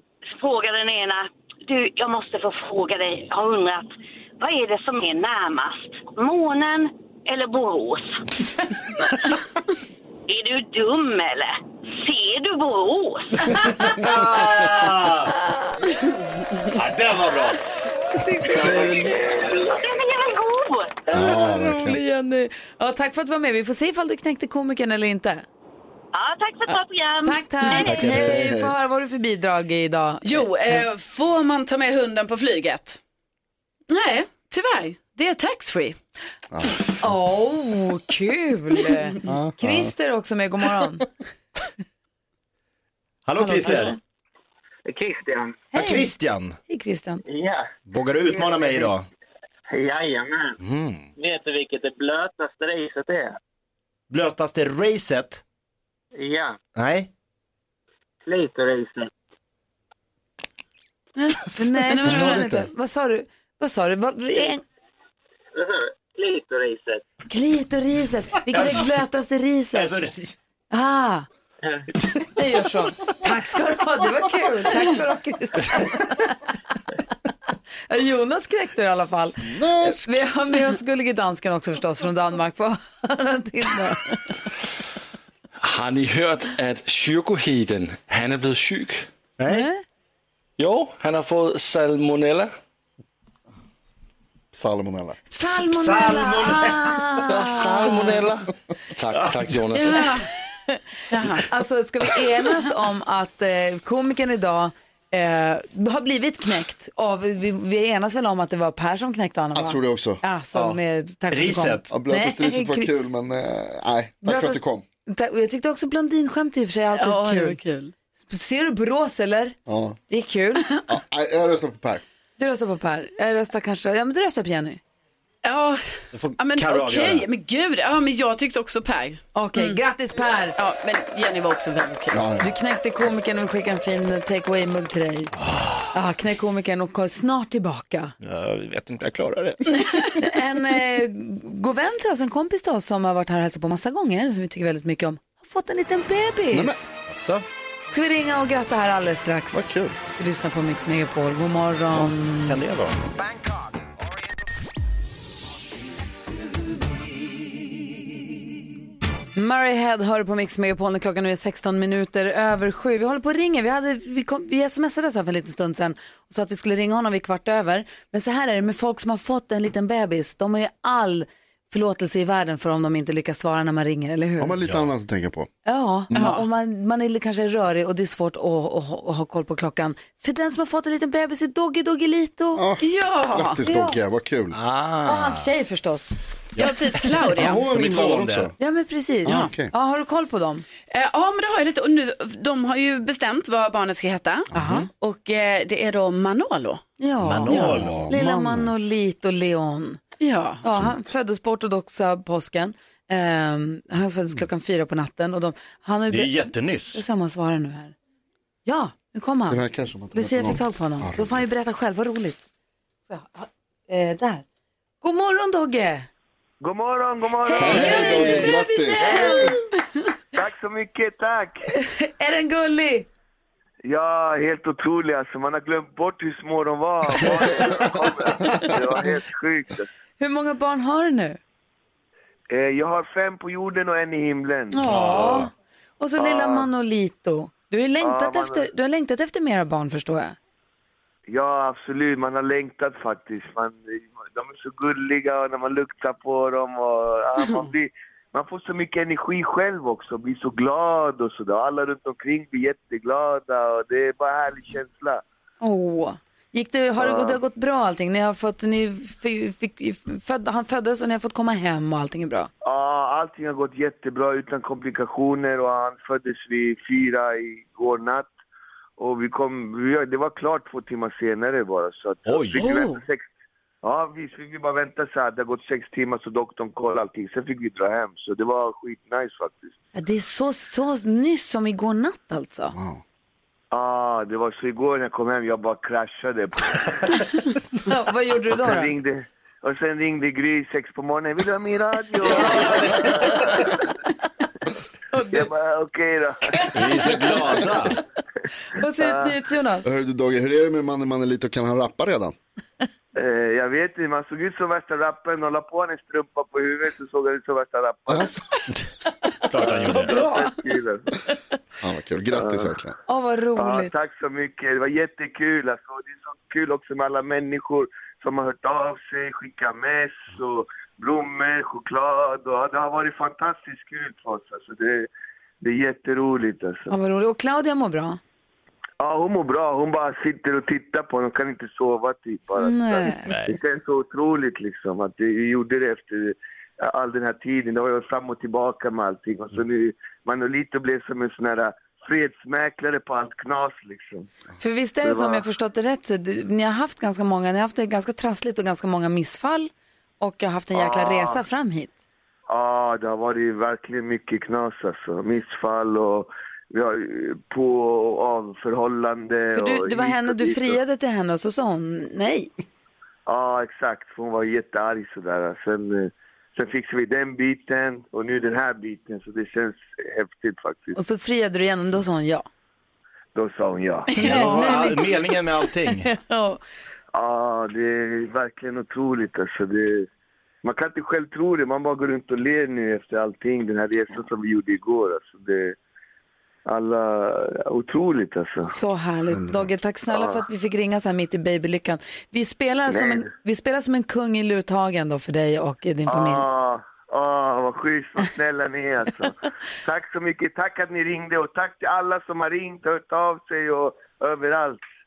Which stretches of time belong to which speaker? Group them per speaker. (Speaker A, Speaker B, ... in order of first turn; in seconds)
Speaker A: 0.3-8.2, 10.3-13.6, 18.7-21.0, 26.1-28.1
Speaker B: 13.6-15.4, 16.7-17.6, 43.3-44.0, 45.7-46.6, 47.9-49.1, 50.6-51.1, 54.1-55.4, 56.8-57.1, 68.5-68.9, 69.7-70.3, 89.4-89.7, 95.5-97.6, 99.2-99.4, 111.3-111.9, 126.1-127.2, 138.2-139.9, 147.1-147.4, 152.5-153.1, 184.5-185.5, 187.4-188.5, 197.2-198.1, 206.1-207.0, 234.8-235.5, 272.3-272.6, 292.2-293.5, 296.7-298.0, 309.5-310.2, 333.3-333.6, 374.1-376.1
Speaker C: 15.3-15.9, 18.2-19.1, 21.1-25.4, 27.2-30.8, 37.0-41.1, 43.4-44.0, 45.7-46.1, 46.7-47.2, 61.5-64.6, 67.3-69.9, 70.7-71.3, 72.4-76.6, 77.9-84.4, 89.5-89.8, 95.3-98.2, 99.8-100.8, 101.4-112.9, 114.2-117.6, 118.2-119.6, 120.1-120.9, 122.4-124.8, 129.3-130.6, 132.4-135.3, 135.9-138.1, 140.2-146.9, 147.9-152.6, 159.4-174.5, 175.7-182.6, 183.6-184.0, 185.1-186.2, 188.6-190.7, 194.5-194.9, 197.0-200.0, 200.6-207.9, 208.7-209.6, 210.1-212.4, 213.1-214.4, 215.0-216.1, 217.5-219.6, 221.7-223.1, 230.2-231.4, 234.7-240.4, 255.6-262.5, 272.6-273.0, 279.9-282.8, 287.9-288.9, 295.1-295.5, 296.5-297.6, 298.8-299.9, 309.6-310.5, 313.1-313.9, 326.9-328.2, 332.6-333.3, 344.6-351.9, 359.5-362.5, 370.9-372.5, 374.1-375.1, 375.8-376.6, 388.7-396.4
Speaker D: 21.1-22.0, 27.8-28.7, 36.5-36.8, 39.3-39.9, 62.0-62.7, 79.4-80.2, 94.5-95.2, 109.5-110.7, 111.9-114.8, 119.7-120.0, 120.9-122.0, 132.1-132.5, 146.5-146.8, 149.5-150.0, 174.4-175.5, 182.6-184.6, 187.4-188.5, 189.3-189.7, 194.5-194.8, 197.6-198.7, 209.5-211.4, 217.6-219.4, 282.7-283.0, 299.9-302.4, 308.1-308.4, 311.8-312.9, 389.3-389.7
Speaker E: 30.2-33.0, 33.9-36.0, 61.2-62.4, 99.8-100.2, 101.1-101.5, 117.0-117.9, 125.4-125.8, 126.4-129.8, 130.6-132.2, 176.1-176.4, 182.8-183.6, 186.6-187.6, 190.9-196.8, 200.2-200.6, 218.1-218.5
Speaker F: 44.9-45.6, 47.3-47.7, 48.3-48.9, 49.7-50.6, 51.2-53.4, 56.1-56.6, 58.3-59.1, 65.5-67.1
Speaker G: 85.6-89.1, 90.6-92.5, 97.3-100.1
Speaker H: 216.6-218.5, 219.0-219.6, 220.3-221.6, 223.8-229.9, 232.5-235.2, 236.2-236.7, 238.0-238.7, 241.3-255.2, 257.0-257.4, 262.6-268.3, 269.0-273.3, 273.8-279.7, 283.7-287.2, 288.5-293.9, 295.3-296.7, 299.0-299.3, 303.1-308.4, 309.6-311.1, 312.3-312.7, 313.6-325.1, 325.6-326.9, 329.0-344.3, 345.0-345.4, 350.7-351.4, 352.5-360.8, 363.3-371.0, 373.4-374.6, 377.1-380.1, 380.6-385.8, 386.7-388.7, 390.1-390.4, 392.9-393.2, 396.1-404.8